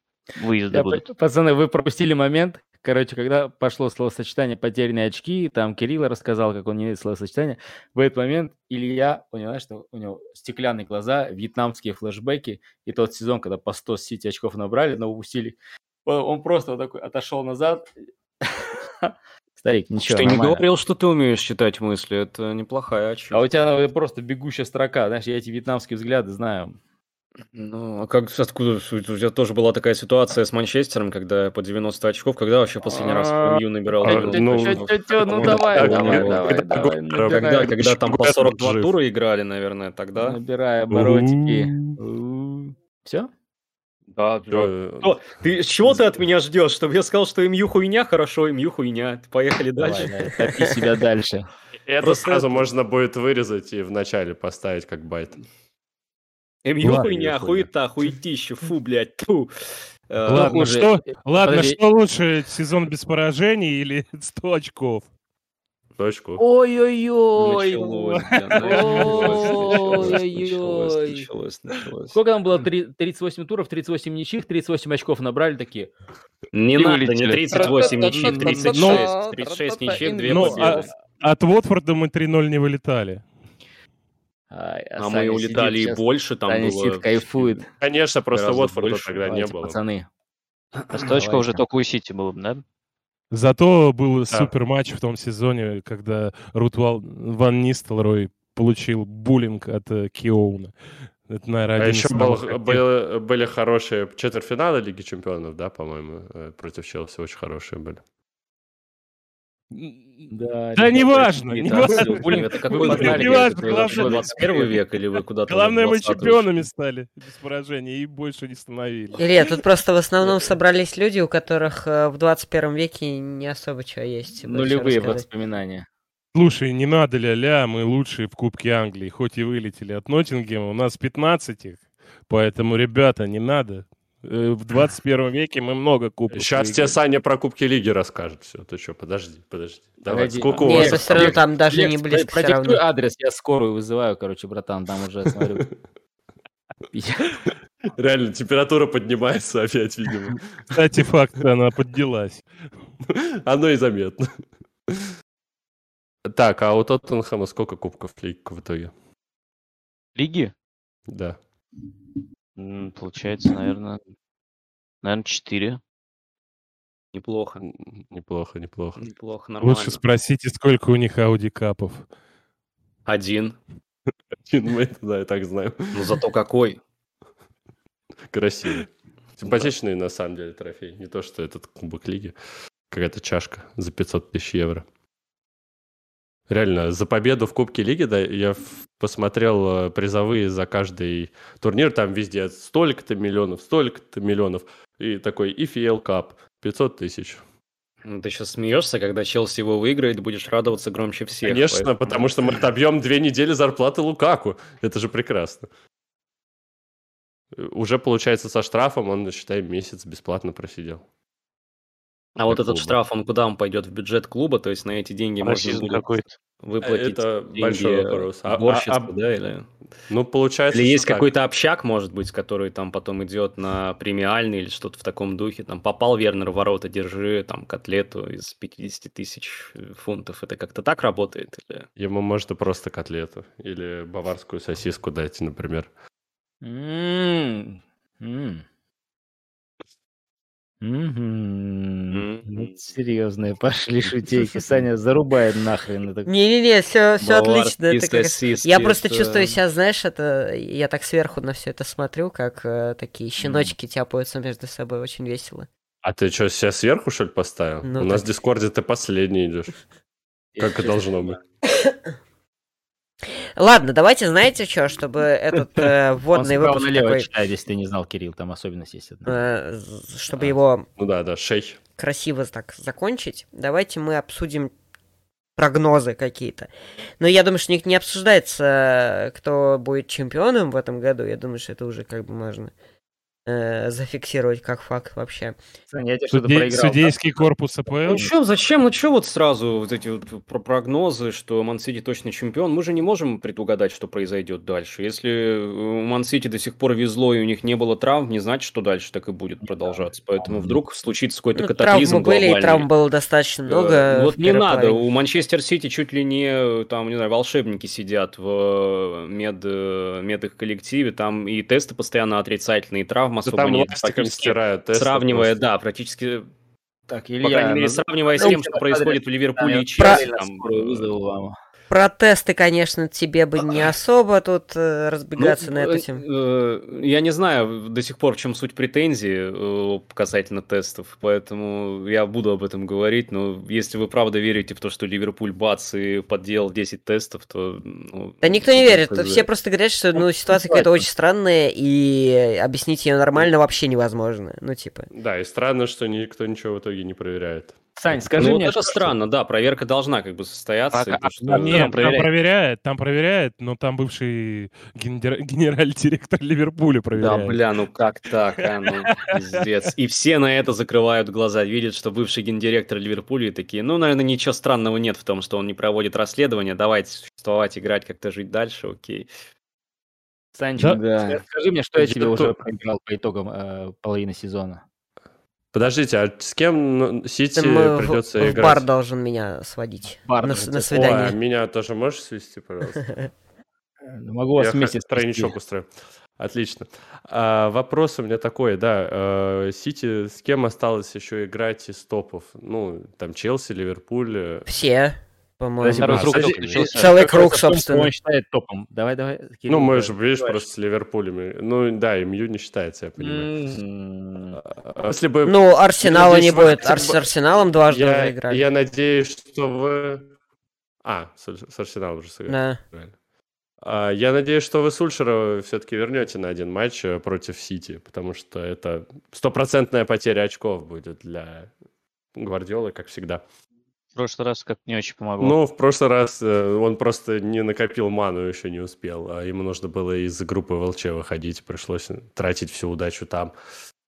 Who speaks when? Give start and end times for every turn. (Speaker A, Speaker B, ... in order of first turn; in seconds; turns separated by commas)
Speaker A: 0.4-1.1, Speaker B: 0.7-17.9, Speaker B: 18.4-20.6, Speaker C: 20.1-23.4, Speaker B: 23.3-26.8, Speaker C: 27.5-36.6, Speaker B: 32.9-37.7, Speaker D: 34.0-38.9, Speaker C: 37.3-40.4, Speaker B: 40.2-43.3, Speaker E: 40.9-42.0, Speaker C: 44.1-50.1, Speaker D: 44.5-45.2, Speaker B: 49.8-51.5, Speaker D: 51.9-55.4, Speaker C: 52.0-52.7, Speaker C: 56.6-59.5, Speaker E: 56.8-57.1, Speaker D: 57.1-57.7, Speaker C: 60.1-60.7, Speaker E: 60.3-65.1, Speaker B: 60.3-61.8, Speaker D: 66.0-66.4, Speaker B: 66.4-71.3, Speaker C: 67.3-72.2, Speaker E: 68.6-69.8, Speaker B: 72.1-75.9, Speaker C: 76.5-80.9, Speaker A: 76.8-77.7, Speaker B: 77.5-80.9, Speaker F: 77.7-79.1, Speaker E: 78.6-79.0, Speaker F: 79.8-80.3, Speaker E: 80.3-83.2, Speaker B: 84.5-87.7, Speaker C: 85.0-87.6, Speaker D: 87.8-89.8, Speaker C: 88.3-89.2, Speaker B: 89.2-90.1, Speaker A: 90.9-92.6, Speaker B: 91.1-91.6, Speaker E: 93.3-100.7, Speaker E: 101.3-102.8, Speaker D: 101.8-108.0, Speaker E: 109.7-114.4, Speaker B: 110.3-114.7, Speaker C: 111.5-116.6, Speaker E: 115.5-119.6, Speaker F: 119.2-125.2, Speaker B: 124.4-125.9, Speaker E: 126.3-137.0, Speaker D: 136.3-141.4, Speaker B: 140.1-145.7, Speaker F: 140.6-142.8, Speaker B: 146.9-147.4, Speaker D: 147.9-150.8, Speaker E: 150.7-152.4, Speaker D: 153.1-154.3, Speaker D: 156.3-158.9, Speaker A: 160.2-160.5, Speaker D: 161.1-161.4, Speaker A: 162.6-164.0, Speaker A: 165.0-165.8, Speaker C: 167.1-167.6, Speaker D: 167.6-169.0, Speaker C: 169.0-170.0, Speaker E: 169.6-172.1, Speaker C: 173.1-173.6, Speaker D: 174.4-176.0, Speaker C: 175.9-176.8, Speaker D: 178.3-182.4, Speaker D: 182.9-184.8, Speaker D: 186.5-197.4, Speaker C: 198.1-202.6, Speaker D: 201.4-205.7, Speaker D: 207.6-211.1, Speaker C: 212.4-216.0, Speaker D: 212.5-213.0, Speaker A: 215.4-216.3, Speaker C: 216.6-219.7, Speaker D: 216.8-219.0, Speaker D: 220.1-221.3, Speaker C: 220.7-231.9, Speaker D: 232.0-235.9, Speaker B: 236.6-238.6, Speaker B: 240.8-246.3, Speaker C: 242.1-242.9, Speaker F: 246.3-255.7, Speaker C: 247.2-249.6, Speaker B: 253.4-253.7, Speaker D: 256.0-259.8, Speaker F: 257.9-258.3, Speaker B: 260.6-261.1, Speaker D: 260.6-261.4, Speaker F: 263.6-267.3, Speaker B: 265.8-269.4, Speaker F: 269.3-270.9, Speaker D: 271.0-271.8, Speaker F: 272.0-274.7, Speaker F: 275.6-282.7, Speaker F: 283.5-285.6, Speaker B: 285.9-287.1, Speaker E: 286.3-288.3, Speaker C: 288.1-302.9, Speaker F: 301.6-305.0, Speaker C: 303.7-316.5, Speaker D: 313.4-315.6, Speaker B: 317.1-321.6, Speaker C: 317.4-321.1, Speaker F: 320.0-320.2, Speaker F: 321.9-326.2, Speaker C: 325.4-339.5, Speaker F: 338.4-345.1, Speaker D: 345.1-348.3, Speaker B: 348.0-349.1, Speaker C: 348.4-352.3, Speaker A: 350.9-352.3, Speaker E: 351.5-357.6, Speaker C: 357.1-369.3, Speaker B: 370.6-374.8, Speaker D: 372.0-372.6, Speaker D: 375.7-378.9, Speaker F: 377.6-381.4, Speaker B: 380.2-381.1, Speaker D: 380.9-383.0, Speaker F: 383.0-383.3, Speaker B: 384.1-385.6, Speaker D: 384.6-394.7, Speaker F: 394.7-398.1, Speaker B: 395.8-400.2, Speaker A: 396.0-397.1, Speaker D: 396.1-397.0, Speaker D: 399.7-403.6, Speaker C: 403.2-403.9, Speaker B: 403.8-404.6, Speaker D: 404.5-407.3, Speaker F: 405.4-408.6, Speaker D: 407.9-410.2, Speaker D: 411.0-413.1, Speaker F: 412.5-412.8, Speaker D: 413.8-421.7, Speaker D: 422.3-423.4, Speaker A: 424.2-425.6, Speaker D: 425.4-433.5